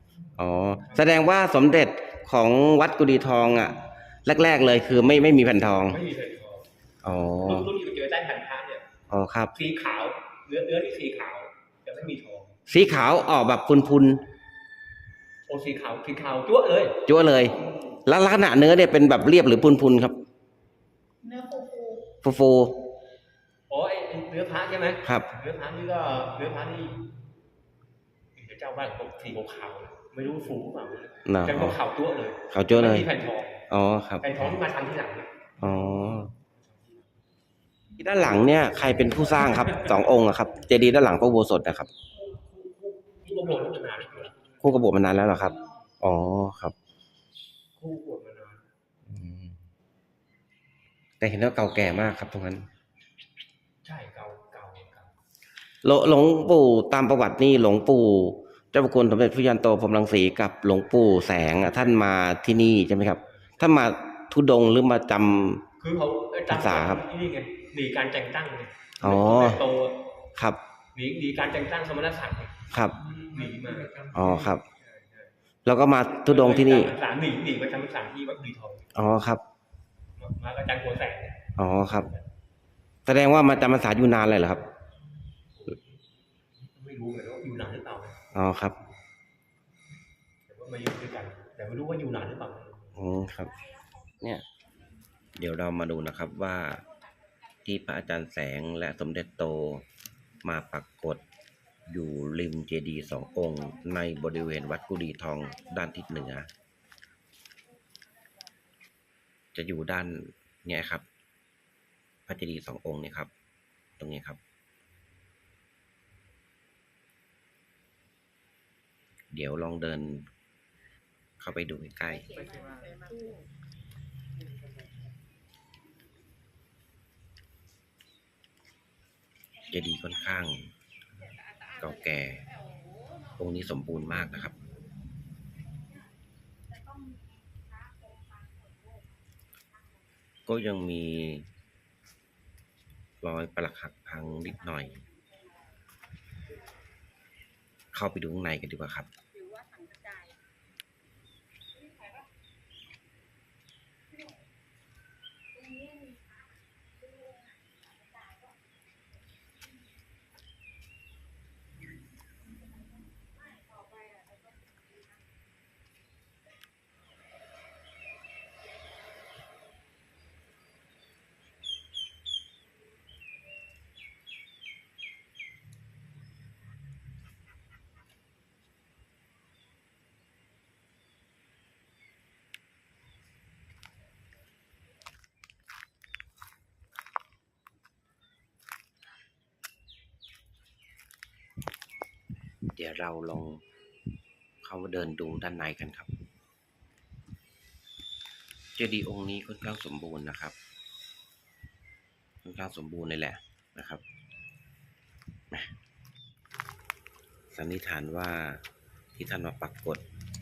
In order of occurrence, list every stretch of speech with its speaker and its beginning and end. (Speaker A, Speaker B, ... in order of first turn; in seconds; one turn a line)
Speaker A: 0.4-6.0
Speaker B: 0.8-1.1
Speaker B: 5.9-6.7
Speaker A: 7.0-7.7
Speaker B: 7.4-8.8
Speaker A: 9.1-9.5
Speaker B: 9.5-12.6
Speaker A: 12.7-14.2
Speaker B: 15.5-17.0
Speaker A: 17.1-20.2
Speaker C: 21.2-22.0
Speaker A: 22.2-22.8
Speaker B: 23.7-27.0
Speaker A: 25.0-25.3
Speaker B: 28.4-33.7
Speaker A: 31.2-31.8
Speaker A: 32.5-33.1
Speaker A: 33.7-34.6
Speaker B: 34.2-35.3
Speaker A: 35.6-36.3
Speaker B: 36.4-37.1
Speaker A: 38.0-41.9
Speaker B: 42.5-44.4
Speaker A: 44.6-46.8
Speaker B: 47.8-48.7
Speaker A: 49.1-49.6
Speaker A: 51.2-52.7
Speaker B: 53.8-55.1
Speaker A: 55.8-65.7
Speaker B: 65.8-70.0
Speaker A: 66.5-67.0
Speaker A: 69.0-69.6
Speaker B: 71.0-72.6
Speaker A: 72.7-73.0
Speaker B: 73.1-74.0
Speaker A: 74.1-74.6
Speaker B: 74.7-75.3
Speaker A: 75.7-76.9
Speaker B: 76.2-78.9
Speaker A: 78.9-79.4
Speaker B: 80.2-82.2
Speaker A: 81.6-82.1
Speaker A: 83.1-84.6
Speaker B: 85.5-85.9
Speaker B: 86.7-88.2
Speaker A: 88.3-88.8
Speaker B: 90.5-93.0
Speaker A: 92.9-93.7
Speaker A: 94.2-94.5
Speaker A: 95.4-96.8
Speaker A: 97.6-99.8
Speaker A: 100.4-101.2
Speaker A: 101.9-106.5
Speaker A: 109.5-111.0
Speaker A: 112.3-113.3
Speaker A: 114.0-114.4
Speaker A: 119.3-120.3
Speaker A: 121.4-122.6
Speaker C: 122.3-123.5
Speaker A: 129.7-130.7
Speaker A: 131.8-132.5
Speaker A: 133.3-134.5
Speaker C: 136.7-139.1
Speaker C: 139.7-140.0
Speaker A: 140.5-141.5
Speaker A: 143.2-145.0
Speaker A: 147.9-149.1
Speaker C: 149.3-150.4
Speaker C: 151.9-152.2
Speaker C: 155.6-156.5
Speaker C: 157.1-158.5
Speaker C: 163.7-164.4
Speaker A: 192.7-193.6
Speaker A: 194.6-196.1
Speaker A: 198.8-200.6
Speaker A: 202.4-204.0
Speaker A: 207.5-208.6
Speaker A: 209.2-210.0